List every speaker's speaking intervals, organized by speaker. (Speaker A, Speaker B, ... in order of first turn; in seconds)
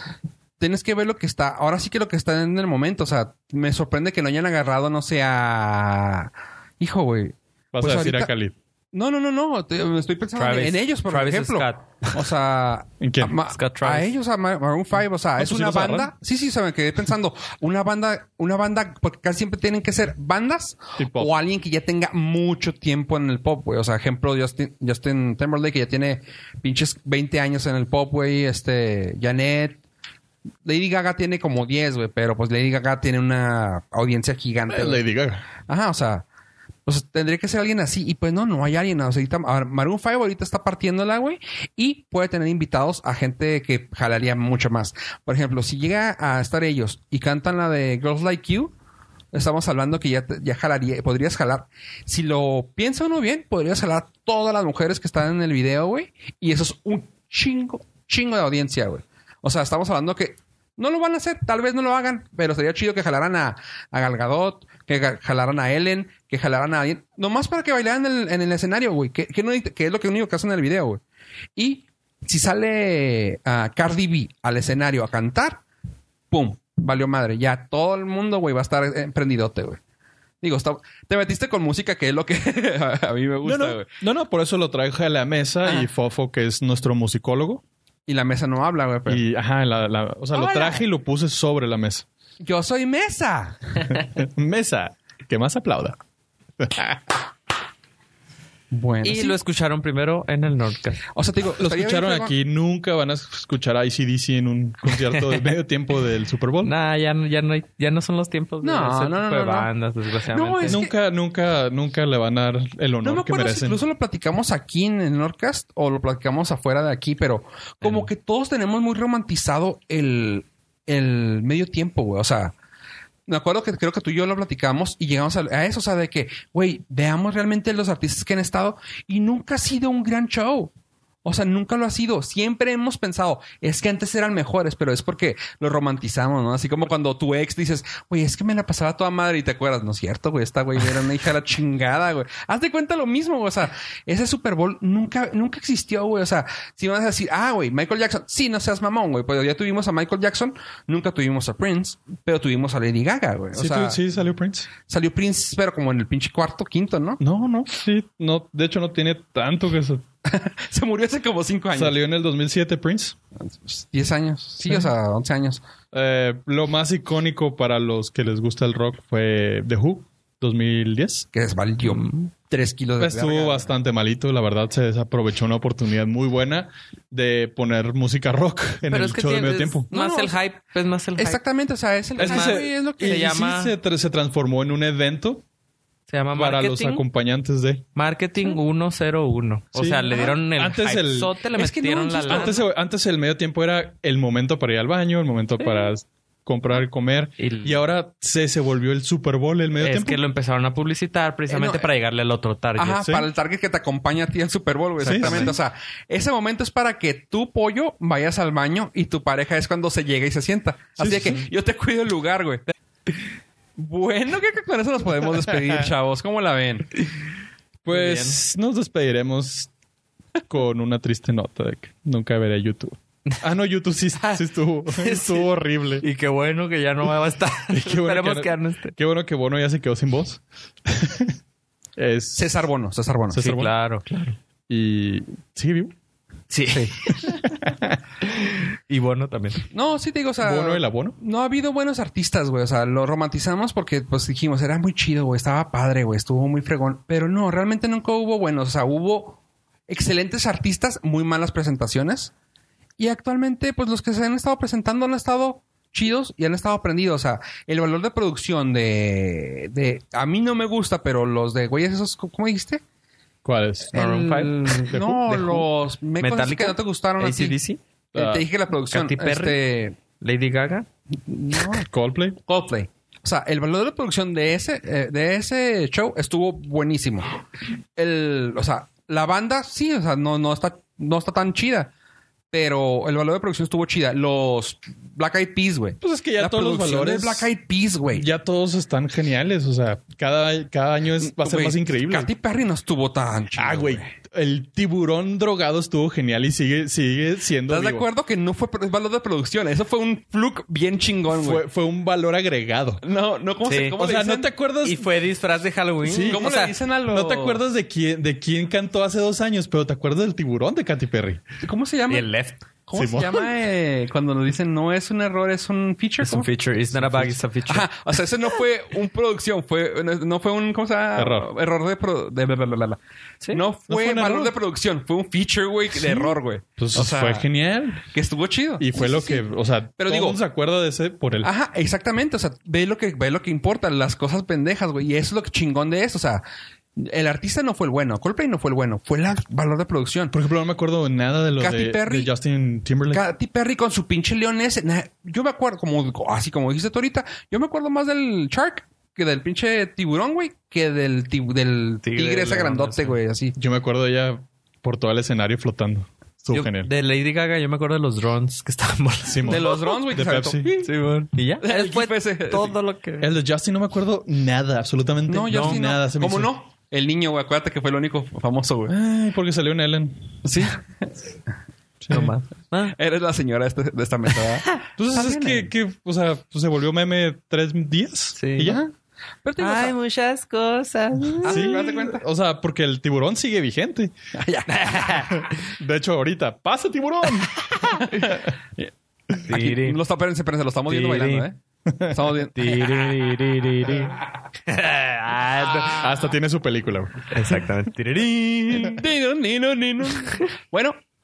Speaker A: 0.6-8.3, 8.9-29.8, 30.6-35.0, 35.6-36.2, 36.8-48.7, 49.3-71.0, 71.5-75.6, 76.3-79.8, 80.4-83.9, 88.1-89.2, 90.3-90.8, 92.4-93.8, 98.7-99.4, 101.1-102.3, 108.6-109.7, 110.3-110.9, 113.0-122.5, 123.3-130.7, 131.2-154.0, 154.9-157.2, 160.2-162.0, 163.4-165.6, 171.3-173.7, 179.9-180.4, 181.2-183.3, 191.6-192.6, 201.5-201.9, 202.8-212.7, 213.8-216.9, 232.3-233.4, 239.7-252.3, 253.0-262.8, 263.9-267.6, 268.1-270.0, 271.2-277.3, 277.9-281.9, 282.5-288.3, 291.2-294.1, 297.7-301.6, 303.0-304.5, 306.3-307.6, 311.6-312.3, 312.9-316.5, 317.7-323.0, 323.5-327.4, 328.1-329.4, 330.0-330.4, 331.4-336.4, 336.9-340.3, 341.6-342.3, 343.1-353.6, 359.4-360.9, 361.6-362.7, 365.3-368.9, 370.4-371.1, 372.9-375.7, 378.6-378.9, 379.4-379.9, 381.4-382.2, 384.3-385.2, 389.4-392.9, 398.7-401.0
Speaker B: 7.7-8.5, 13.0-13.4, 15.3-16.1, 21.0-21.3, 34.7-35.5, 83.4-87.6, 89.1-92.0, 93.9-96.0, 96.6-97.2, 101.6-106.7, 110.7-113.8, 153.5-154.7, 157.2-160.0, 161.7-163.2, 165.9-171.3, 173.0-179.9, 182.2-185.4, 186.3-187.8, 189.7-191.3, 192.3-200.2, 203.0-203.2, 205.0-205.5, 211.0-211.4, 217.8-219.7, 220.5-226.0, 227.7-231.3, 232.0-232.6, 233.3-233.7, 234.7-235.9, 237.1-237.9, 240.4-241.2, 263.4-264.0, 264.8-265.7, 268.1-268.4, 271.9-272.4, 286.0-287.5, 288.1-292.3, 293.5-298.0, 301.3-303.0, 303.9-305.1, 306.0-311.4, 312.9-313.4, 316.9-317.3, 321.1-321.5, 323.9-324.5, 326.0-328.1, 328.8-331.5, 340.3-343.2, 353.6-356.9, 359.3-360.7, 363.2-366.5, 368.9-370.3, 372.0-372.3, 375.0-378.8, 381.4-384.1, 385.3-388.3, 395.9-397.3
Speaker C: 10.3-12.2, 13.5-14.1, 99.0-101.0, 106.6-110.8, 171.9-172.3, 178.9-181.4, 182.2-183.7, 186.1-187.0, 187.9-192.6, 195.6-195.9, 197.4-197.8, 199.8-203.0, 205.0-205.5, 217.9-218.4, 224.9-225.5, 226.0-228.9, 233.3-234.3, 236.5-237.4, 238.2-239.7, 263.9-264.7, 266.2-267.8, 268.9-269.6, 270.2-270.9, 303.6-303.9, 304.8-306.7, 312.1-312.6, 316.2-317.9, 352.0-353.2, 356.5-359.7, 360.8-363.3, 365.5-365.8, 372.1-372.9, 378.4-378.8, 379.6-381.8, 384.7-385.3, 389.4-390.0, 390.9-391.5, 392.5-396.1, 397.3-399.0